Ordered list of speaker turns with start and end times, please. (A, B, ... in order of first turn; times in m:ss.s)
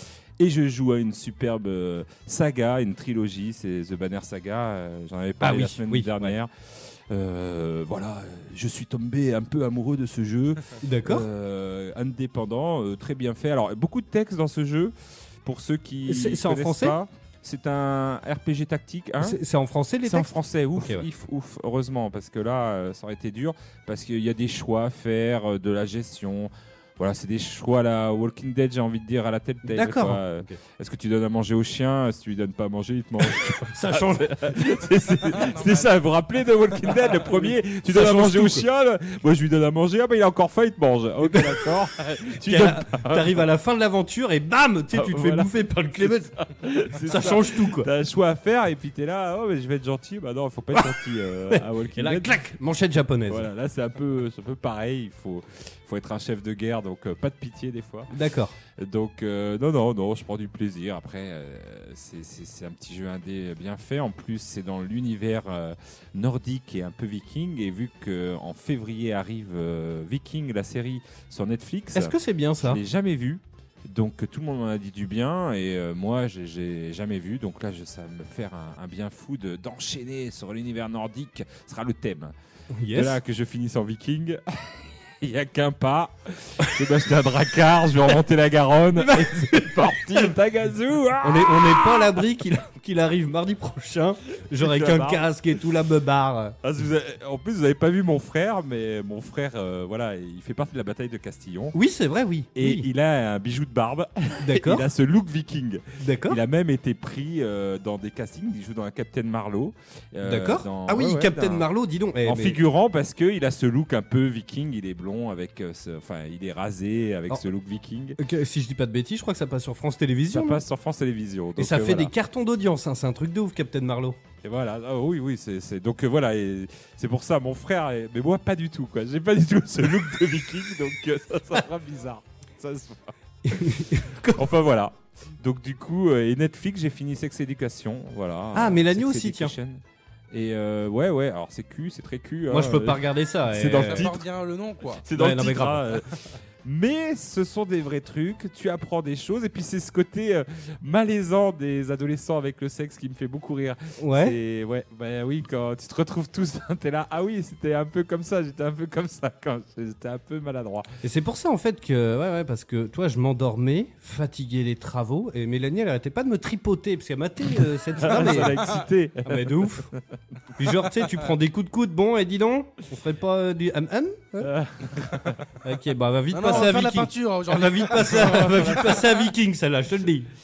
0:00.4-0:19.4 A
0:05.4-0:06.3 B
0:10.8-0:11.3 B
0:16.1-0:17.0 B
0:19.2-0:21.1 B
0:20.0-0:43.4 A
0:29.6-0:30.6 B
0:33.7-0:34.6 B
0:35.3-0:36.0 C
0:37.2-0:38.7 B
0:41.2-0:41.6 B
0:42.4-0:46.3 B
0:44.9-0:52.4 A
0:47.0-0:47.9 B
0:51.5-0:53.5 B
0:53.3-0:58.1 A
0:58.1-0:58.6 B
0:58.7-1:22.3 A
1:11.9-1:12.8 B
1:22.7-1:23.2 B
1:22.9-1:32.2 A
1:29.0-1:30.3 B
1:31.2-1:36.6 B
1:34.6-1:35.3 A
1:36.6-1:41.8 A
1:41.7-1:42.9 B
1:42.6-1:51.7 A
1:44.4-1:44.9 B
1:46.0-1:46.4 B
1:50.2-1:52.6 B
1:52.2-1:58.2 A
1:58.2-2:00.6 B
2:00.3-2:02.1 A
2:01.6-2:04.2 B
2:04.4-2:13.1 A
2:13.4-2:14.4 B
2:14.3-2:24.2 A
2:18.5-2:19.5 B
2:22.5-2:24.1 B
2:23.7-2:25.0 C
2:25.0-2:40.9 A
2:25.1-2:25.9 B
2:34.0-2:34.4 B
2:41.0-2:49.9 B
2:47.9-2:49.9 A
2:50.6-2:54.6 B
2:54.4-2:55.5 A
2:55.6-3:00.3 B
2:56.3-2:59.0 C
2:58.5-2:58.9 A